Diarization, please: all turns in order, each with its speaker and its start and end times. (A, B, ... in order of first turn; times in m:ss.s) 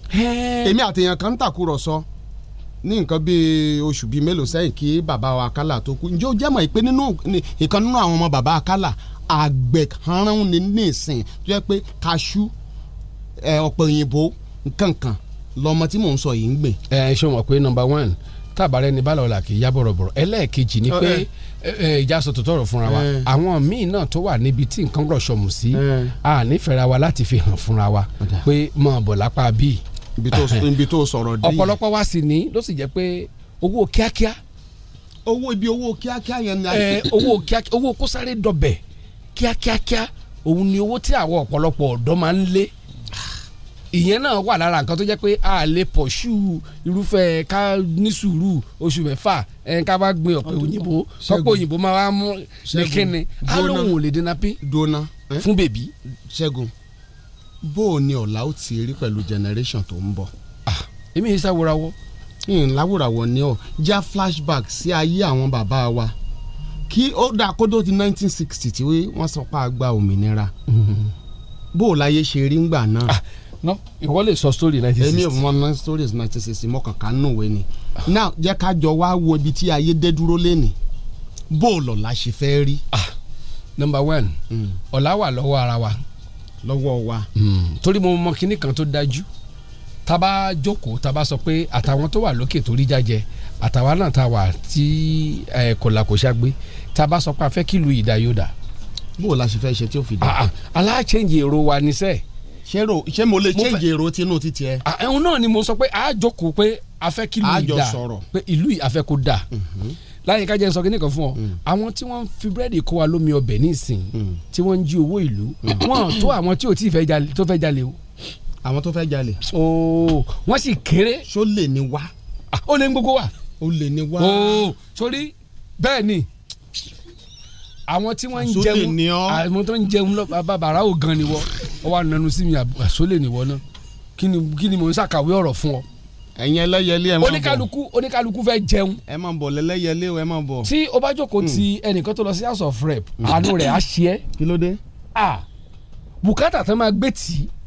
0:00.1-0:00.8 A
0:00.6-0:02.0 B
0:02.8-0:12.5 B
0:13.4-0:16.8 B
0:16.9-0:29.8 A
0:20.9-0:21.2 B
0:22.9-0:23.3 B
0:25.7-0:26.2 B
0:30.2-0:31.8 B
0:30.3-0:30.6 A
0:31.4-0:34.4 A
0:35.3-0:37.3 B
0:36.7-0:38.8 A
0:39.4-0:42.7 A
0:43.9-0:54.6 A
0:51.2-0:51.6 B
0:52.7-0:54.0 B
0:54.6-0:55.5 B
0:55.4-0:55.9 A
0:56.3-0:56.7 B
0:57.6-1:00.3 B
1:00.7-1:02.0 A
1:02.5-1:06.1 B
1:06.9-1:10.5 B
1:10.7-1:11.1 A
1:11.7-1:13.2 B
1:13.1-1:15.4 A
1:15.0-1:20.8 B
1:21.5-1:22.8 B
1:23.8-1:24.4 A
1:24.5-1:24.8 B
1:24.9-1:26.0 A
1:26.6-1:27.3 B
1:27.4-1:29.3 A
1:30.1-1:38.5 A
1:39.2-1:40.4 B
1:40.2-1:42.2 A
1:42.7-1:44.8 B
1:43.6-1:43.8 A
1:44.8-1:49.4 A
1:47.4-1:48.2 B
1:49.5-1:50.0 B
1:50.2-1:58.0 A
1:54.2-1:54.4 B
1:58.6-1:59.4 B
1:59.5-2:01.2 A
2:01.3-2:02.1 B
2:02.5-2:03.3 A
2:03.6-2:04.7 B
2:04.2-2:06.3 A
2:07.9-2:13.6 A
2:08.4-2:09.4 B
2:14.2-2:15.8 A
2:16.4-2:17.7 B
2:17.2-2:19.0 A
2:19.1-2:20.7 B
2:20.6-2:24.2 A
2:23.2-2:23.5 B
2:24.4-2:24.8 B
2:25.2-2:25.4 A
2:26.2-2:27.5 A